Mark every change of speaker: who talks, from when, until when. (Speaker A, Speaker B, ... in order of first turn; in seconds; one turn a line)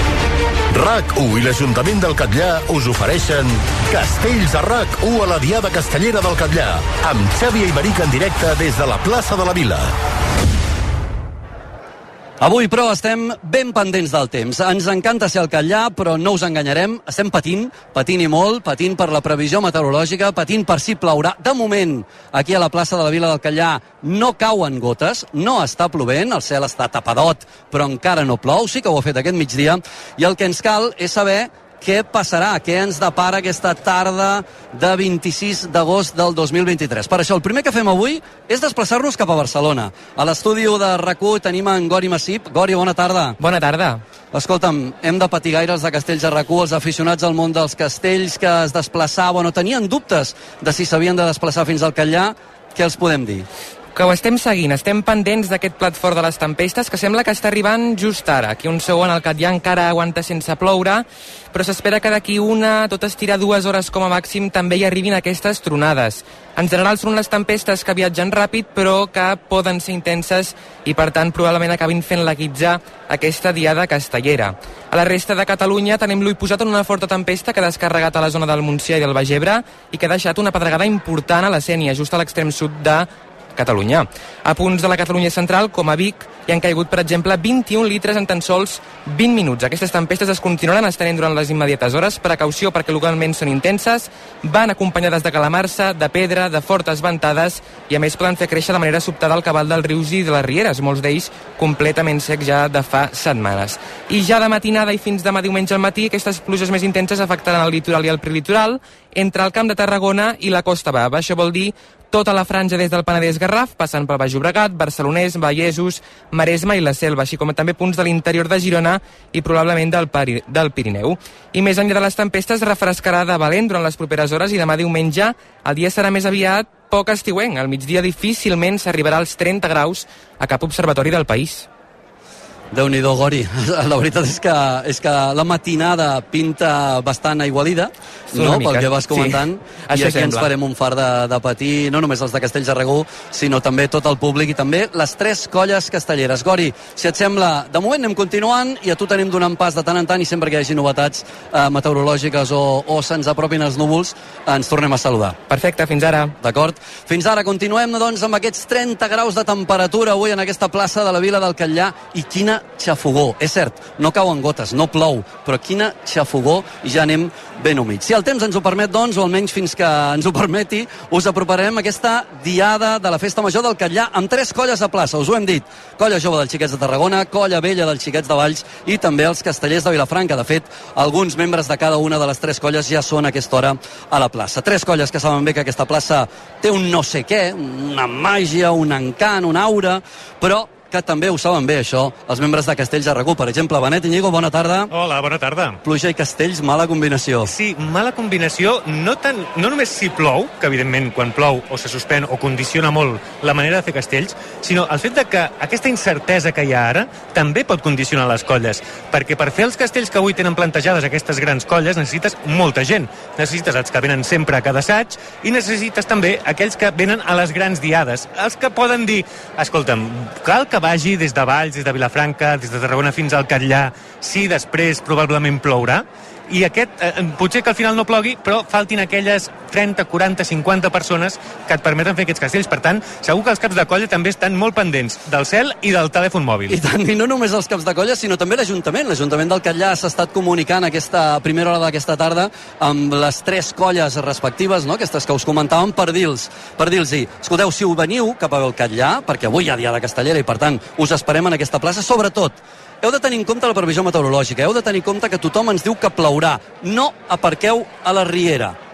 Speaker A: 0.7-9.9
Speaker B: 12.4-43.4
Speaker C: 43.4-44.0
Speaker B: 44.3-53.5
Speaker C: 54.0-131.7
Speaker B: 132.7-155.4
Speaker C: 138.3-140.5
Speaker C: 155.5-156.3
Speaker B: 156.4-194.9
Speaker D: 194.9-195.8
Speaker B: 195.8-197.5
Speaker D: 197.4-236.8
Speaker B: 236.7-258.8